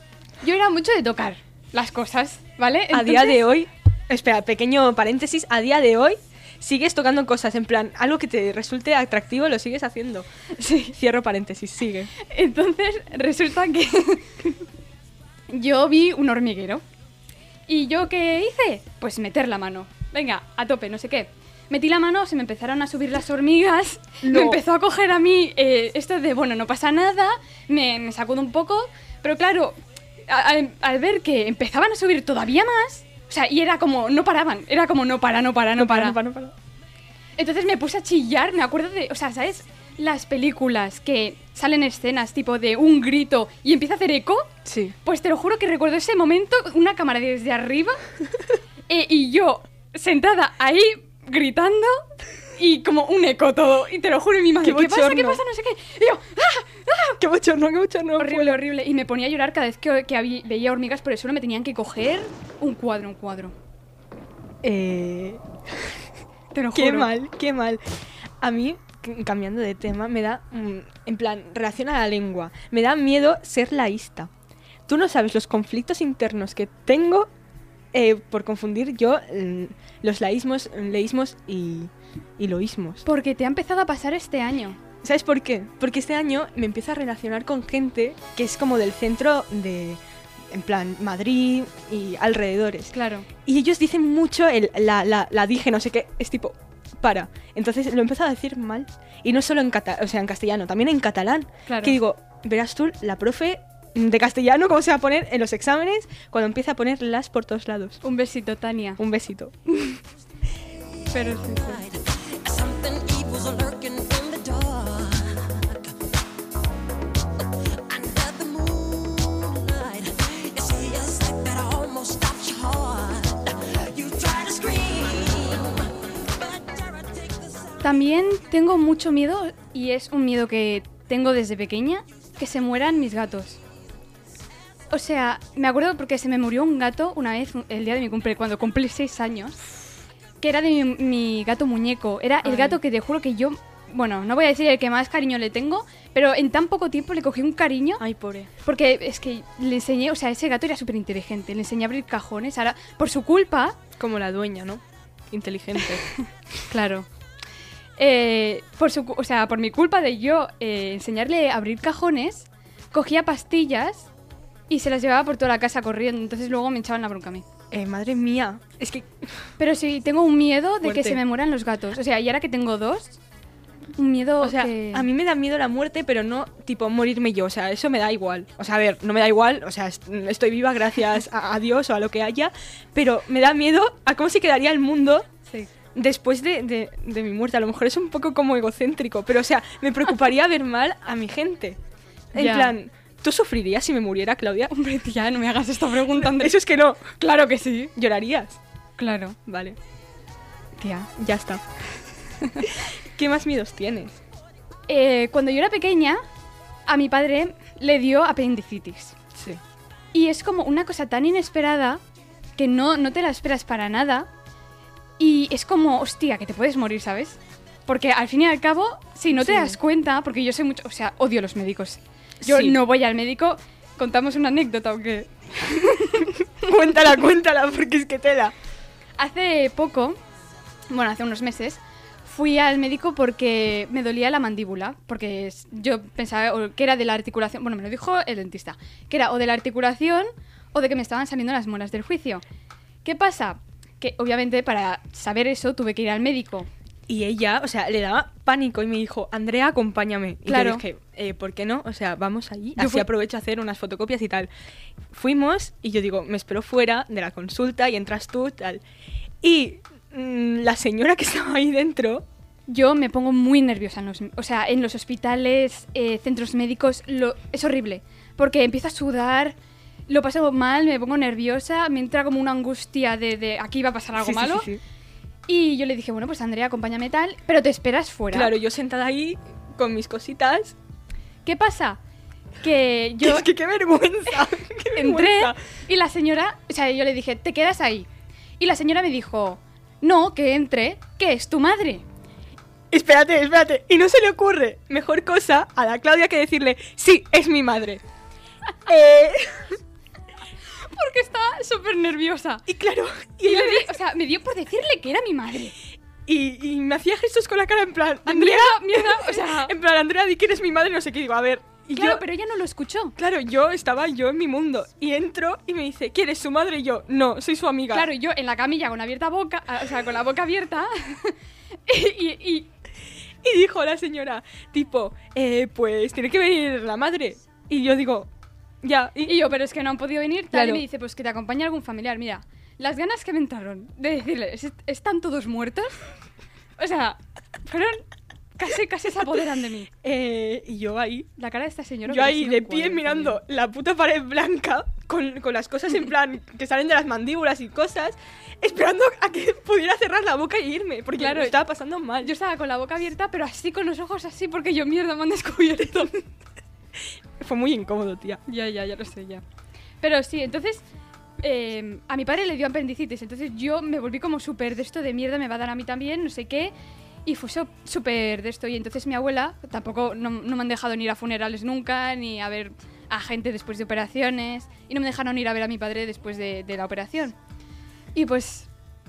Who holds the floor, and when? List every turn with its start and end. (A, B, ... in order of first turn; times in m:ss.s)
0:00.4-0:03.4 A
0:02.9-0:10.3 B
0:10.6-0:11.0 A
0:10.9-0:12.1 B
0:12.2-0:14.6 A
0:15.5-0:16.8 A
0:17.7-0:36.2 A
0:24.2-0:24.6 B
0:35.8-0:36.6 B
0:37.4-0:44.5 A
0:44.6-0:45.0 B
0:45.0-0:48.0 A
0:48.9-0:57.2 A
0:54.6-0:55.4 B
0:57.2-0:58.6 B
0:58.2-1:03.5 A
1:04.6-1:06.0 B
1:06.5-1:07.1 A
1:06.7-1:07.8 B
1:08.4-1:14.3 B
1:14.9-1:17.3 B
1:17.9-1:23.0 B
1:23.0-1:24.8 A
1:25.0-1:48.0 B
1:32.9-1:33.3 A
1:41.7-1:42.0 A
1:48.0-1:49.0 A
1:49.0-1:50.0 B
1:51.1-1:51.8 A
1:51.5-1:55.9 C
1:57.9-2:07.8 C
2:07.8-2:13.6 A
2:14.9-2:19.8 A
2:20.4-2:28.0 A
2:22.4-2:22.8 B
2:28.0-2:28.5 B
2:28.6-2:33.8 A
2:34.0-2:36.1 B
2:36.7-2:37.1 A
2:38.0-2:44.1 A
2:44.7-2:47.4 A
2:47.7-2:49.3 B
2:49.6-2:53.2 A
2:50.8-2:51.2 B
2:54.0-2:55.1 A
2:54.4-3:05.3 B
3:05.9-3:11.8 B
3:12.3-3:14.7 B
3:12.4-3:12.8 A
3:14.7-3:16.6 A
3:16.1-3:17.2 B
3:17.2-3:17.9 A
3:18.0-3:18.6 B
3:19.0-3:19.4 A
3:19.5-3:19.8 B
3:20.8-3:21.1 A
3:21.2-3:21.6 B
3:22.6-3:24.2 B
3:24.9-3:26.2 A
3:26.9-3:29.2 A
3:29.4-3:29.6 B
3:30.1-3:32.0 A
3:32.6-3:34.3 A
3:35.2-3:46.4 A
3:39.4-3:39.8 B
3:42.4-3:42.8 B
3:46.6-3:48.5 B
3:49.2-3:50.2 A
3:50.9-4:02.4 A
4:03.0-4:06.7 A
4:07.1-4:14.5 B
4:10.5-4:10.8 A
4:12.8-4:13.1 A
4:15.1-4:18.8 B
4:19.4-4:22.3 B
4:22.7-4:29.6 A
4:30.1-4:34.7 A
4:34.2-4:34.8 B
4:35.5-4:38.5 A
4:38.3-4:40.8 B
4:41.4-4:42.0 A
4:42.6-4:43.5 A
4:43.2-4:45.6 B
4:45.0-4:48.1 A
4:48.6-4:52.0 A
4:52.9-4:58.0 B
4:58.9-4:59.8 B
5:00.8-5:02.7 A
5:02.7-5:03.9 B
5:03.4-5:05.8 A
5:06.3-5:12.2 B
5:08.2-5:09.8 A
5:11.9-5:13.2 A
5:13.2-5:18.1 B
5:17.9-5:22.7 A
5:23.4-5:28.3 B
5:28.8-5:29.4 B
5:29.2-5:36.0 A
5:30.5-5:30.8 B
5:36.8-5:39.9 A
5:40.0-5:41.3 B
5:41.4-5:43.4 A
5:42.1-5:52.3 B
5:51.2-5:51.6 A
5:52.2-5:56.2 A
5:57.4-5:58.4 B
5:58.5-5:59.4 A
6:00.0-6:00.8 A
6:01.4-6:06.7 A
6:07.2-6:17.4 A
6:18.1-6:18.7 A